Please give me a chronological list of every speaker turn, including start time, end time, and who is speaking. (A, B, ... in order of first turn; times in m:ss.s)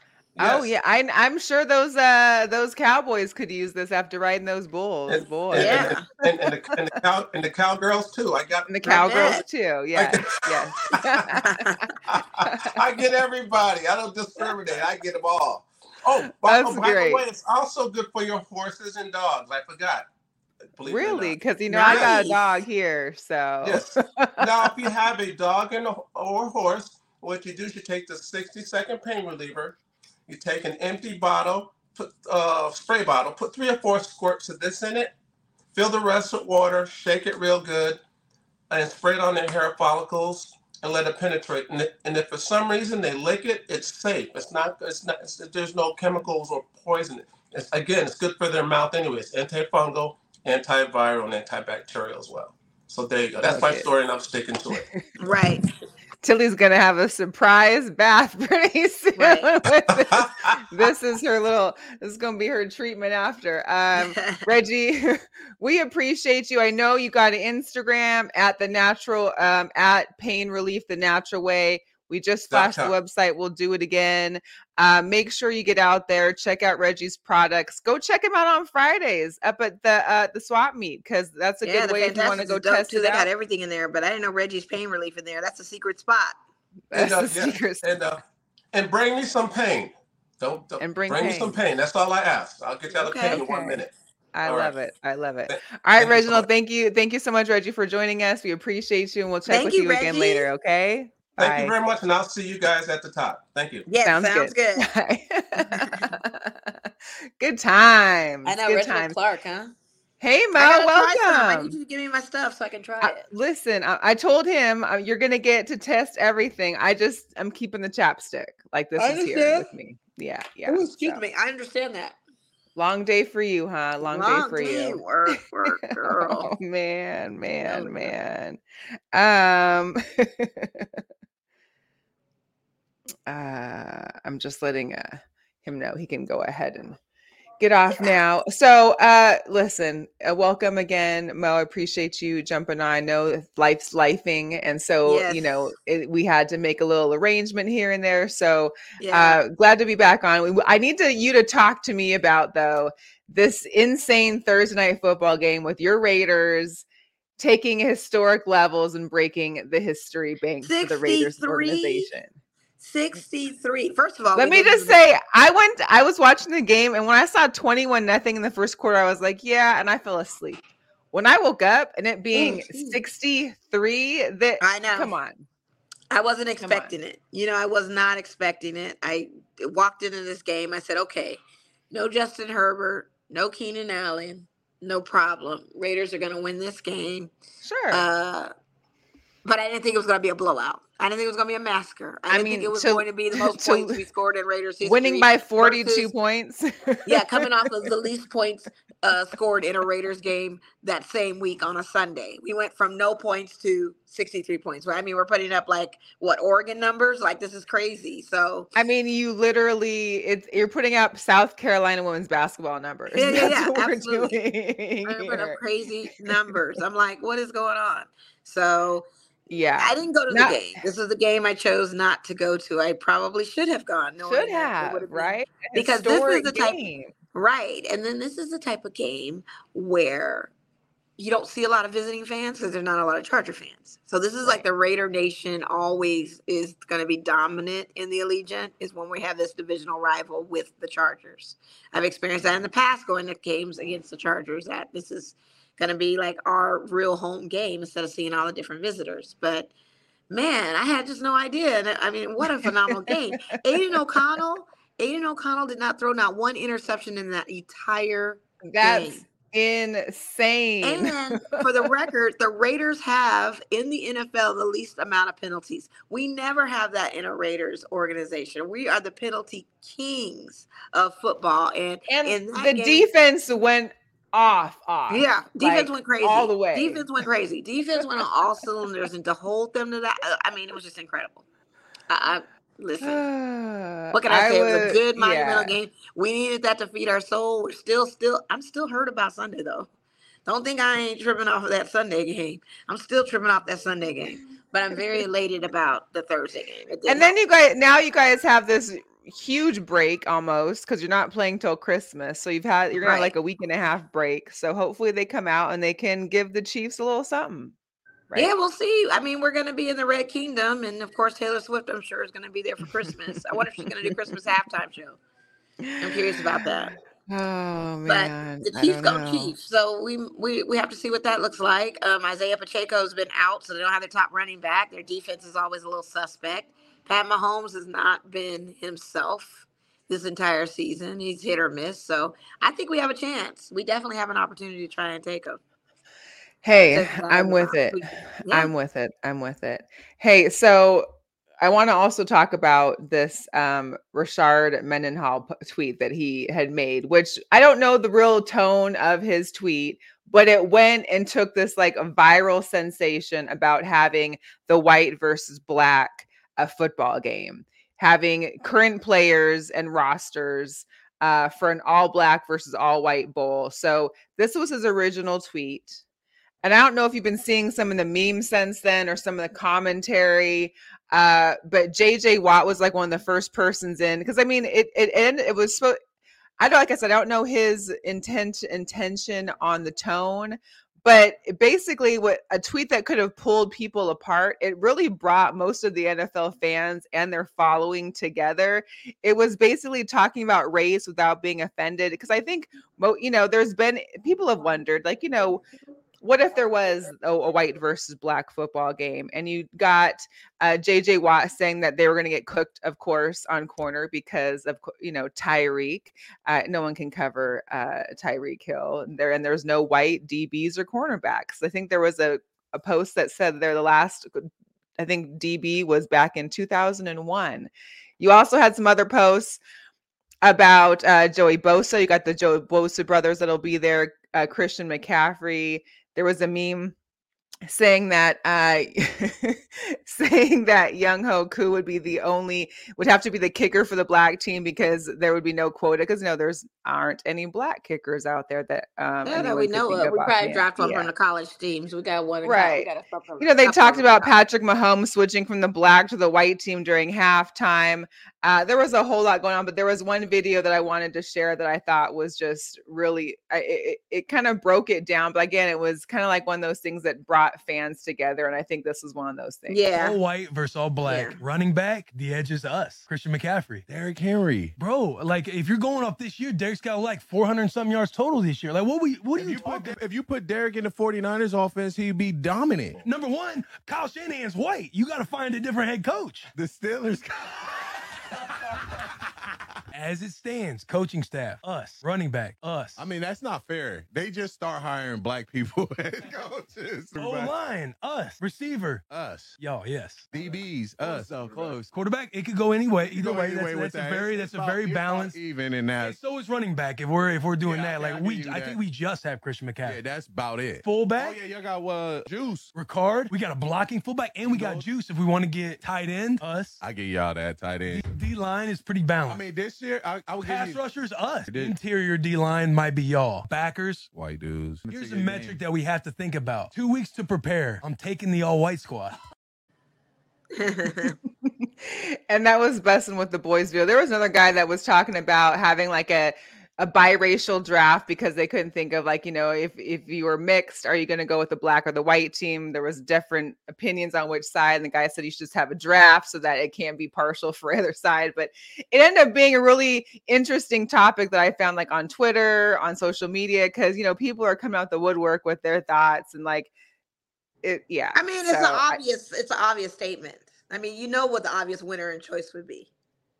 0:00.4-0:00.7 A
0:00.4-0:06.0 B
0:05.1-0:09.0 A
0:05.5-0:06.0 C
0:08.7-0:11.7 B
0:08.8-0:09.4 C
0:09.9-0:11.4 A
0:11.4-0:11.8 C
0:12.0-0:20.0 A
0:12.4-0:12.7 B
0:16.4-0:17.2 B
0:20.8-0:22.3 A
0:20.9-0:24.7 B
0:21.7-0:22.4 C
0:23.6-0:35.1 A
0:35.7-0:38.0 A
0:38.7-0:54.8 A
0:53.4-0:53.9 B
0:54.7-0:55.0 B
0:55.2-0:55.7 C
0:56.2-1:23.3 B
0:59.2-0:59.4 C
0:59.9-1:00.6 A
1:04.0-1:04.5 C
1:12.5-1:12.9 A
1:21.6-1:26.4 C
1:26.9-1:28.0 B
1:26.9-1:28.2 A
1:28.7-1:33.9 A
1:30.8-1:31.6 B
1:32.9-1:33.4 C
1:33.3-1:33.8 B
1:34.3-1:41.7 B
1:34.4-1:34.8 A
1:35.5-1:36.4 A
1:39.4-1:40.5 C
1:41.4-1:43.9 A
1:43.9-1:44.9 C
1:44.0-1:49.2 B
1:45.7-1:46.0 C
1:48.4-1:49.8 C
1:50.2-1:51.7 B
1:50.6-1:53.2 C
1:53.0-2:01.2 B
1:59.0-1:59.7 C
2:00.6-2:02.2 C
2:02.8-2:08.6 B
2:04.0-2:06.6 C
2:07.6-2:08.1 C
2:09.1-2:11.0 B
2:13.3-2:17.0 B
2:17.6-2:36.8 B
2:25.0-2:25.7 C
2:29.0-2:29.4 C
2:37.4-2:42.3 B
2:40.6-2:42.1 C
2:42.8-2:45.0 C
2:44.3-2:50.6 B
2:51.1-2:55.4 B
2:52.3-2:53.0 C
2:54.6-2:55.1 C
2:56.1-3:01.4 C
2:56.6-2:56.9 B
3:01.9-3:07.3 C
3:07.6-3:08.0 B
3:07.9-3:08.5 C
3:09.4-3:16.1 C
3:12.3-3:14.0 B
3:14.8-3:17.5 B
3:17.0-3:28.7 C
3:28.7-3:35.6 B
3:33.1-3:34.4 C
3:35.0-3:39.0 C
3:39.5-3:40.8 B
3:39.8-3:46.8 C
3:44.2-3:47.1 B
3:47.3-3:50.5 C
3:51.2-4:09.7 C
4:10.3-4:19.2 C
4:12.6-4:13.2 B
4:13.9-4:14.2 B
4:18.6-4:21.9 B
4:20.8-4:33.1 C
4:32.1-4:37.0 B
4:35.1-4:41.4 C
4:42.1-4:43.2 C
4:43.0-4:45.7 B
4:44.1-4:49.9 C
4:50.4-4:57.3 C
4:57.1-5:07.7 B
5:03.0-5:03.3 C
5:08.3-5:15.2 C
5:15.8-5:16.7 B
5:16.0-5:16.9 C
5:17.3-5:19.5 B
5:18.1-5:35.6 C
5:36.6-5:41.1 B
5:36.9-5:38.7 C
5:41.6-6:06.0 B
6:06.6-6:16.0 B
6:16.6-6:35.6 B
6:36.2-6:59.6 B
7:00.4-7:06.9 B
7:07.7-7:21.1 B
7:19.2-7:24.3 C
7:22.4-7:22.9 B
7:23.4-7:39.8 B
7:39.7-7:40.2 C
7:39.9-7:44.1 D
7:41.0-7:41.4 C
7:43.9-7:44.8 E
7:44.8-7:50.0 D
7:49.3-7:53.0 E
7:53.0-7:56.5 D
7:56.5-7:57.9 E
7:59.9-8:03.0 D
8:03.0-8:07.5 E
8:07.2-8:09.0 D
8:09.1-8:09.6 E
8:09.6-8:15.4 D
8:10.3-8:11.9 E
8:13.1-8:16.2 E
8:16.0-8:20.0 D
8:17.6-8:18.8 E
8:19.8-8:22.7 E
8:20.8-8:21.4 D
8:22.7-8:26.8 D
8:24.4-8:24.9 E
8:26.8-8:28.0 E
8:27.9-8:29.4 D
8:29.3-8:30.8 E
8:30.4-8:34.1 D
8:31.5-8:31.8 E
8:34.1-8:35.6 E
8:34.8-8:39.2 D
8:40.5-8:41.1 C
8:41.4-9:06.7 B
9:07.6-9:09.0 B
9:08.1-9:12.9 C